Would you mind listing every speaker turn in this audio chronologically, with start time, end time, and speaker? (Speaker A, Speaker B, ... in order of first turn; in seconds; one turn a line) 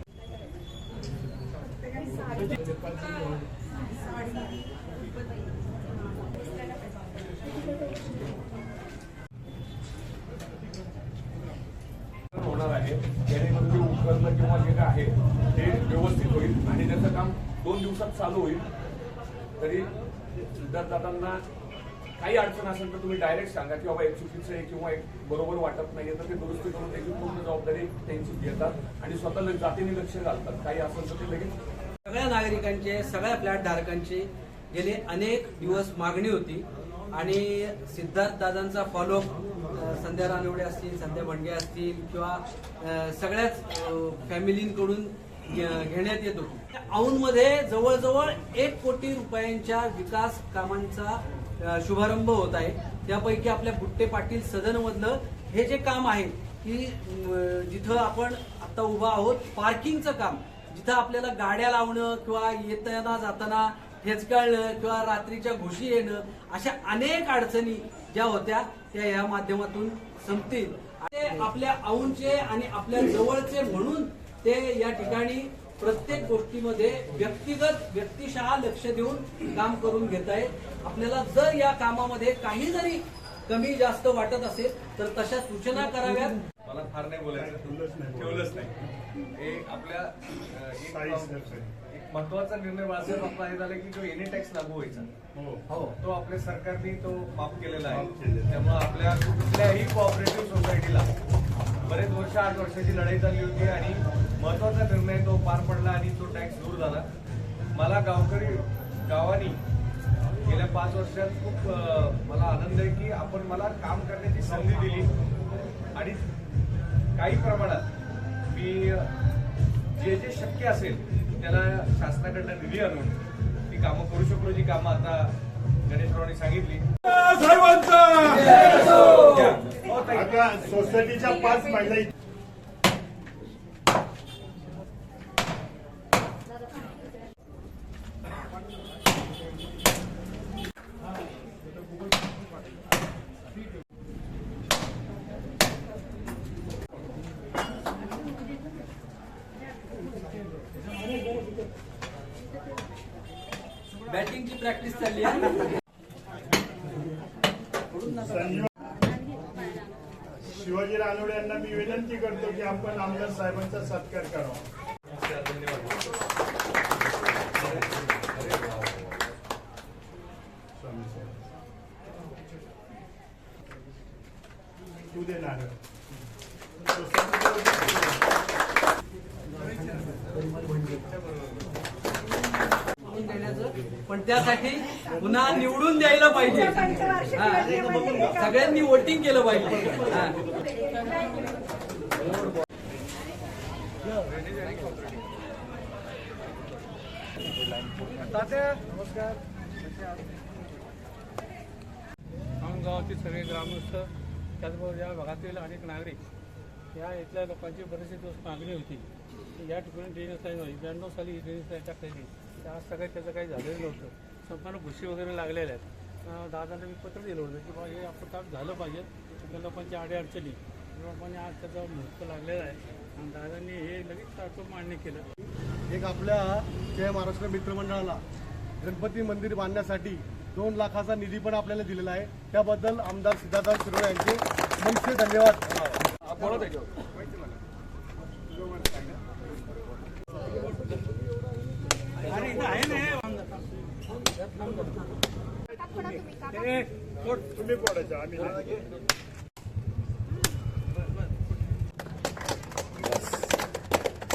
Speaker A: 12.3-18.6
Speaker A: 19.6-21.4
Speaker A: 22.2-31.6
Speaker B: 32.0-86.4
Speaker C: 86.7-88.7
Speaker D: 87.3-88.6
Speaker C: 89.3-95.1
Speaker D: 90.9-91.7
Speaker D: 95.3-95.6
Speaker B: 95.7-95.9
Speaker C: 96.0-101.1
Speaker D: 97.9-98.6
Speaker C: 101.8-107.0
Speaker C: 107.7-109.6
Speaker C: 110.4-115.1
Speaker C: 115.9-116.2
Speaker C: 117.1-117.9
Speaker C: 118.5-119.1
Speaker C: 119.9-123.2
Speaker C: 123.7-125.3
Speaker C: 125.8-126.9
Speaker B: 128.3-129.4
Speaker C: 128.8-131.3
Speaker D: 130.1-132.1
Speaker B: 154.1-155.7
Speaker B: 157.9-158.7
Speaker D: 158.2-158.7
Speaker D: 160.5-164.6
Speaker C: 165.3-165.9
Speaker D: 170.7-171.4
Speaker D: 175.1-175.8
Speaker D: 176.9-178.2
Speaker B: 183.0-190.4
Speaker C: 194.3-195.1
Speaker C: 198.1-198.8
Speaker E: 202.6-204.1
Speaker E: 204.6-206.2
Speaker E: 206.9-209.1
Speaker E: 209.6-225.2
Speaker F: 225.9-228.2
Speaker F: 228.8-235.6
Speaker A: 236.3-236.8
Speaker E: 242.3-243.4
Speaker E: 246.5-246.9
Speaker D: 247.3-248.7